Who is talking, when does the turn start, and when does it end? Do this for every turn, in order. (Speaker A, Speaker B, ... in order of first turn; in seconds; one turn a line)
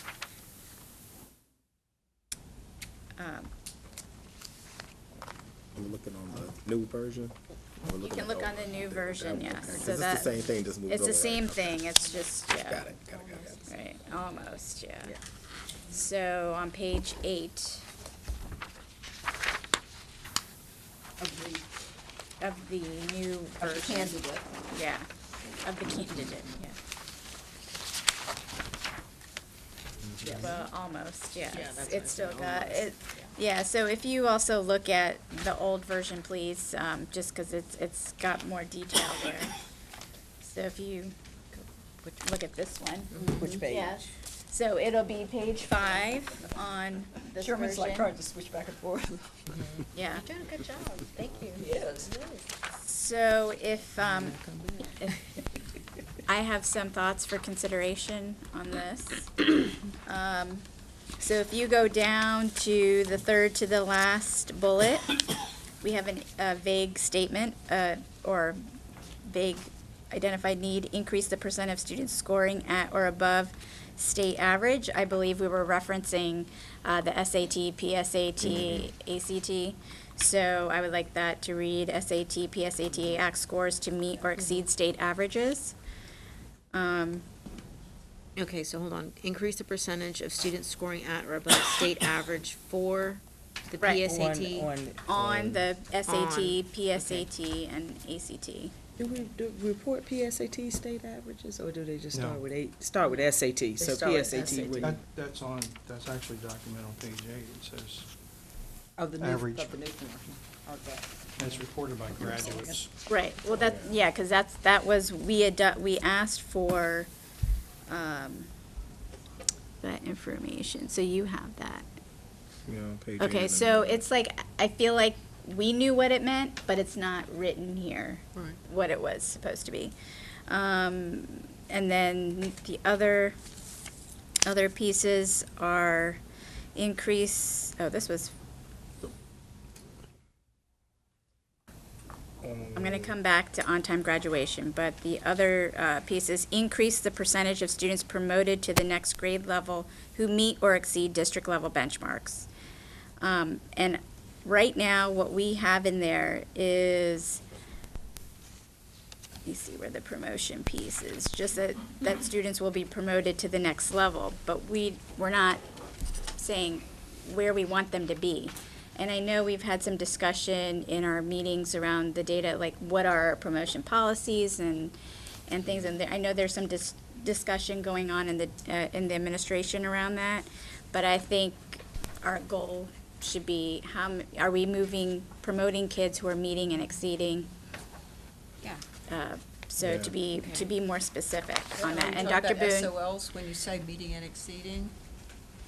Speaker A: 3.2-3.5
Speaker B: 5.8-11.8
Speaker A: 7.9-12.9
Speaker B: 12.5-13.6
Speaker C: 13.1-13.7
Speaker A: 13.7-15.2
Speaker A: 15.9-17.9
Speaker D: 21.2-21.7
Speaker A: 22.4-24.2
Speaker D: 23.6-24.5
Speaker A: 24.7-25.1
Speaker A: 25.6-26.8
Speaker B: 30.1-30.5
Speaker D: 30.2-30.5
Speaker A: 30.4-39.5
Speaker C: 31.5-33.2
Speaker A: 40.4-41.1
Speaker C: 41.5-42.2
Speaker A: 42.2-48.1
Speaker C: 43.1-43.8
Speaker E: 43.4-43.9
Speaker D: 47.4-49.4
Speaker C: 49.5-52.4
Speaker A: 49.9-50.2
Speaker D: 51.6-52.1
Speaker A: 52.8-54.4
Speaker A: 56.3-59.5
Speaker A: 60.0-60.6
Speaker A: 61.2-65.2
Speaker A: 65.8-68.6
Speaker A: 69.2-85.8
Speaker B: 78.4-78.9
Speaker C: 84.4-84.7
Speaker A: 86.7-87.3
Speaker C: 88.4-94.7
Speaker A: 93.8-94.1
Speaker E: 94.0-95.7
Speaker A: 95.1-98.7
Speaker C: 96.1-97.3
Speaker E: 99.0-105.0
Speaker F: 102.1-102.5
Speaker D: 103.8-105.0
Speaker C: 104.1-104.9
Speaker F: 104.8-108.1
Speaker D: 109.0-111.6
Speaker F: 109.2-109.8
Speaker F: 111.4-112.9
Speaker D: 112.2-112.8
Speaker A: 113.1-117.1
Speaker B: 113.5-113.9
Speaker A: 117.9-118.5
Speaker A: 119.8-121.9
Speaker B: 122.7-124.0
Speaker A: 123.2-129.9
Speaker A: 130.5-133.4
Speaker A: 134.4-136.2
Speaker A: 136.8-138.3
Speaker B: 142.4-143.2
Speaker A: 142.8-152.5
Speaker A: 153.2-157.4
Speaker A: 159.4-165.6
Speaker A: 166.4-174.9
Speaker A: 175.5-187.5
Speaker A: 189.1-192.9
Speaker B: 189.8-190.1
Speaker C: 190.3-190.7
Speaker D: 191.8-194.9